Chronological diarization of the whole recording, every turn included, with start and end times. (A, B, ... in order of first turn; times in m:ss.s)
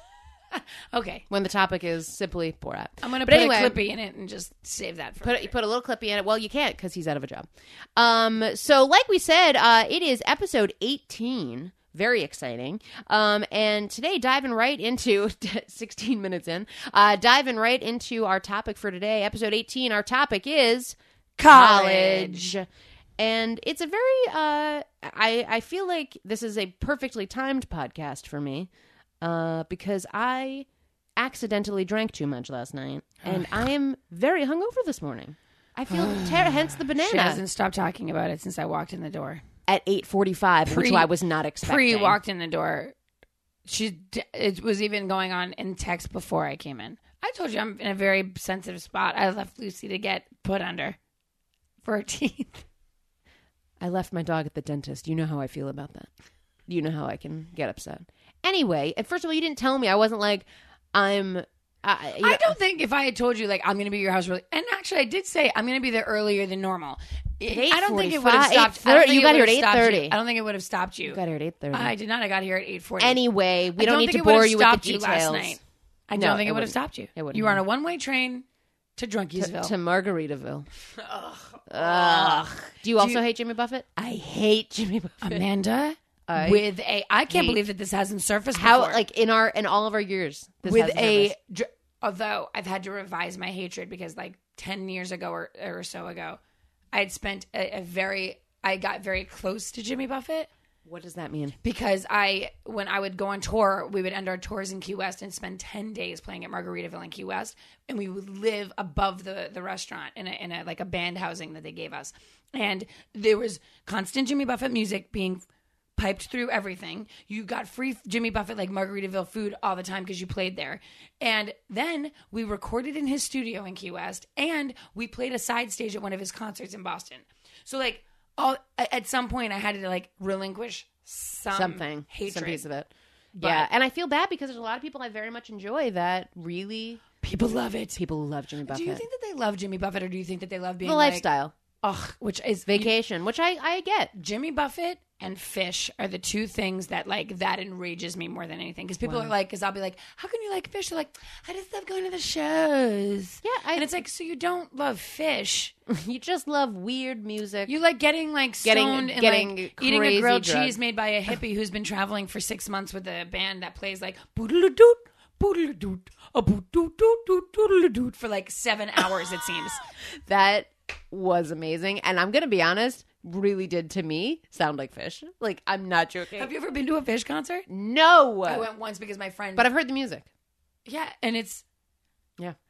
0:00.5-0:01.3 A
0:01.3-0:03.8 B
0:03.0-0:05.5 A
0:05.2-0:22.7 B
0:21.4-0:22.6 A
0:23.2-0:28.7 B
0:29.2-0:37.4 B
0:35.9-0:39.4 A
0:39.7-0:42.2 B
0:40.7-0:41.1 A
0:41.6-0:43.0 A
0:43.7-0:51.0 A
0:51.8-0:52.6 A
0:53.8-0:56.1 B
0:56.7-1:02.6 B
1:02.2-1:11.2 A
1:07.5-1:10.2 B
1:11.0-1:11.9 B
1:11.7-1:13.2 A
1:13.0-1:15.6 B
1:13.8-1:18.4 A
1:16.2-1:17.6 B
1:19.0-1:19.7 A
1:19.4-1:20.7 B
1:21.0-1:23.2 A
1:21.7-1:25.4 B
1:25.2-1:29.0 A
1:26.3-1:26.6 B
1:27.3-1:27.6 B
1:28.5-1:31.4 B
1:30.6-1:36.4 A
1:36.9-1:40.5 A
1:40.8-1:41.6 B
1:41.6-1:55.4 A
1:56.0-2:12.7 A
2:11.5-2:17.0 B
2:13.4-2:13.7 A
2:17.2-2:18.0 A
2:18.0-2:19.0 B
2:18.7-2:21.2 A
2:20.8-2:21.5 B
2:21.8-2:22.9 A
2:22.7-2:24.1 B
2:24.2-2:35.7 A
2:29.0-2:29.3 B
2:33.4-2:33.9 B
2:35.9-2:37.8 B
2:37.7-2:49.8 A
2:38.6-2:40.8 B
2:50.3-2:56.5 B
2:56.4-2:57.7 A
2:57.7-2:58.7 B
2:58.4-2:59.7 A
2:59.6-3:00.3 B
3:00.8-3:01.6 A